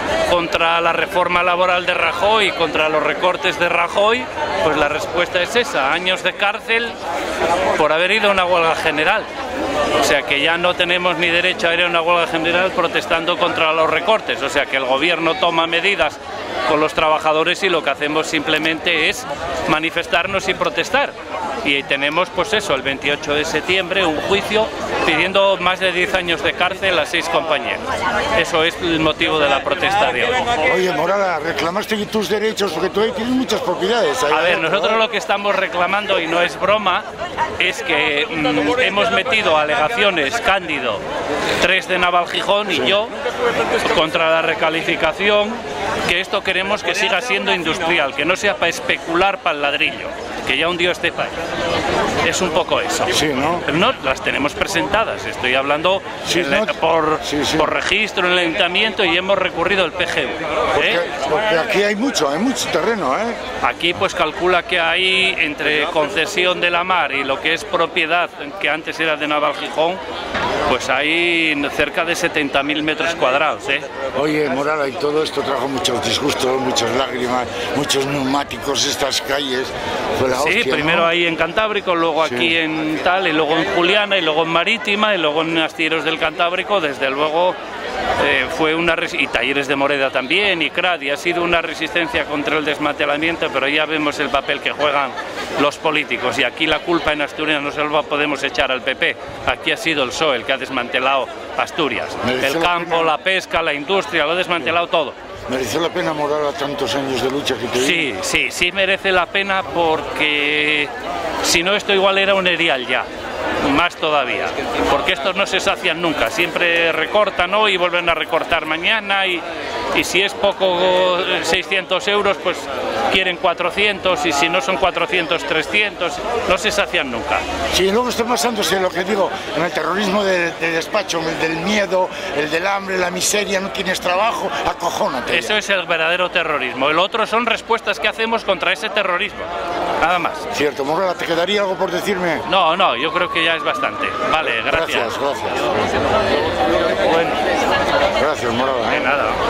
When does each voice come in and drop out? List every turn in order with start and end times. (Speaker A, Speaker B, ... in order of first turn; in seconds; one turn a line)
Speaker A: 0.2-7.0
Speaker A: 7.7-9.3
Speaker A: 9.9-30.5
Speaker B: 30.6-35.0
Speaker A: 34.3-37.0
Speaker A: 37.6-41.0
Speaker A: 41.6-43.1
Speaker A: 43.7-51.4
Speaker A: 52.2-61.0
Speaker B: 53.1-53.6
Speaker B: 56.2-57.7
Speaker B: 60.7-63.4
Speaker A: 63.6-70.0
Speaker A: 70.7-73.9
Speaker B: 74.1-81.1
Speaker A: 80.3-87.6
Speaker B: 82.2-82.5
Speaker A: 88.2-105.2
Speaker B: 102.2-103.1
Speaker B: 105.5-108.1
Speaker A: 107.7-113.1
Speaker A: 113.6-127.4
Speaker B: 127.7-135.6
Speaker A: 135.3-139.5
Speaker A: 140.0-140.4
Speaker B: 140.5-142.4
Speaker A: 142.4-145.1
Speaker B: 144.7-145.7
Speaker A: 147.0-147.4
Speaker B: 148.1-149.0
Speaker A: 148.9-149.4